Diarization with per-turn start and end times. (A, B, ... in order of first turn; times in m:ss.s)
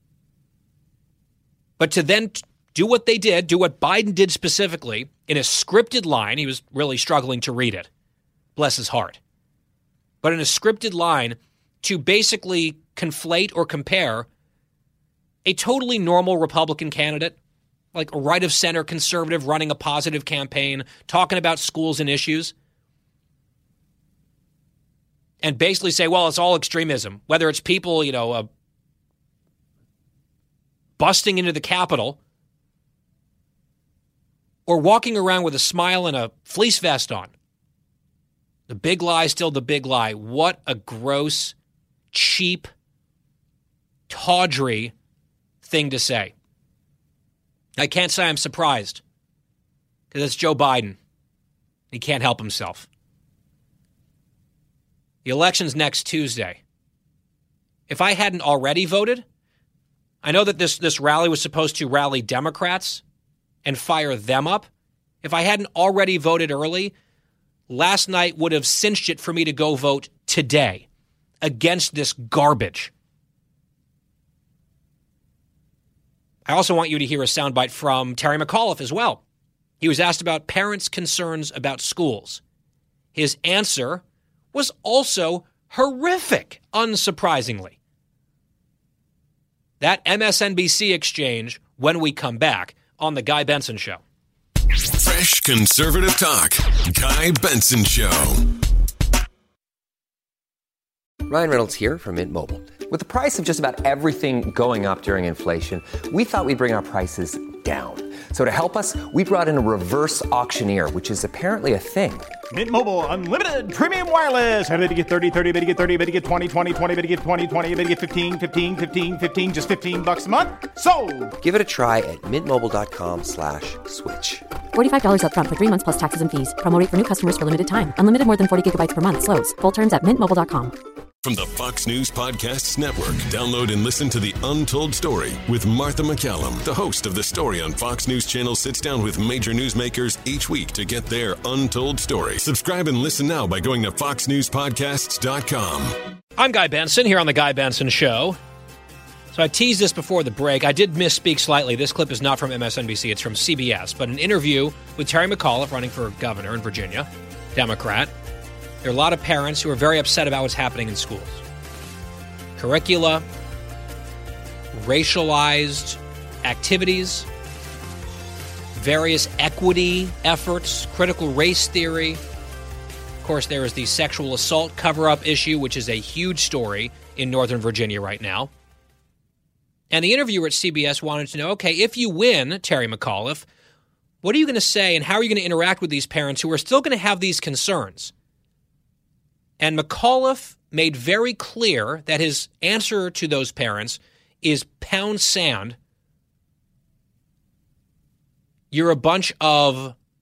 0:01.8-0:07.9 A
0:08.6-0:09.2 A
0:10.2-0:14.3 A
0:15.4-0:17.4 A
0:17.9-0:22.5 A
0:25.4-0:28.5 A
0:31.0-0:32.2 A
0:34.7-0:37.3 A
0:38.7-0:41.6 A
0:42.1-0:42.7 A
0:44.1-0:44.9 A
0:45.6-0:46.3 A
0:47.8-0:49.0 A
0:50.1-0:51.0 A
0:51.9-0:52.9 A
0:55.2-0:56.6 A
0:57.9-0:59.2 A
1:00.2-1:03.0 A
1:03.6-1:04.7 A
1:05.2-1:06.9 A
1:07.7-1:10.8 A
1:11.4-1:12.9 A
1:16.5-1:19.2 A
1:19.8-1:22.4 A
1:23.2-1:24.0 A
1:24.5-1:27.8 A
1:29.8-1:34.0 A
1:34.9-1:38.4 B
1:41.3-1:52.3 C
1:52.5-2:01.3 D
2:01.4-2:04.5 C
2:04.7-2:10.7 E
2:11.2-2:26.0 B
2:26.4-2:28.4 A
2:29.3-2:38.1 A
2:38.8-2:41.4 A
2:42.6-2:43.2 A
2:44.8-2:47.3 A
2:48.8-2:52.2 A
2:53.2-2:58.5 A
2:59.9-3:03.5 A
3:04.2-3:08.1 A
3:09.6-3:15.8 A
3:18.7-3:20.0 A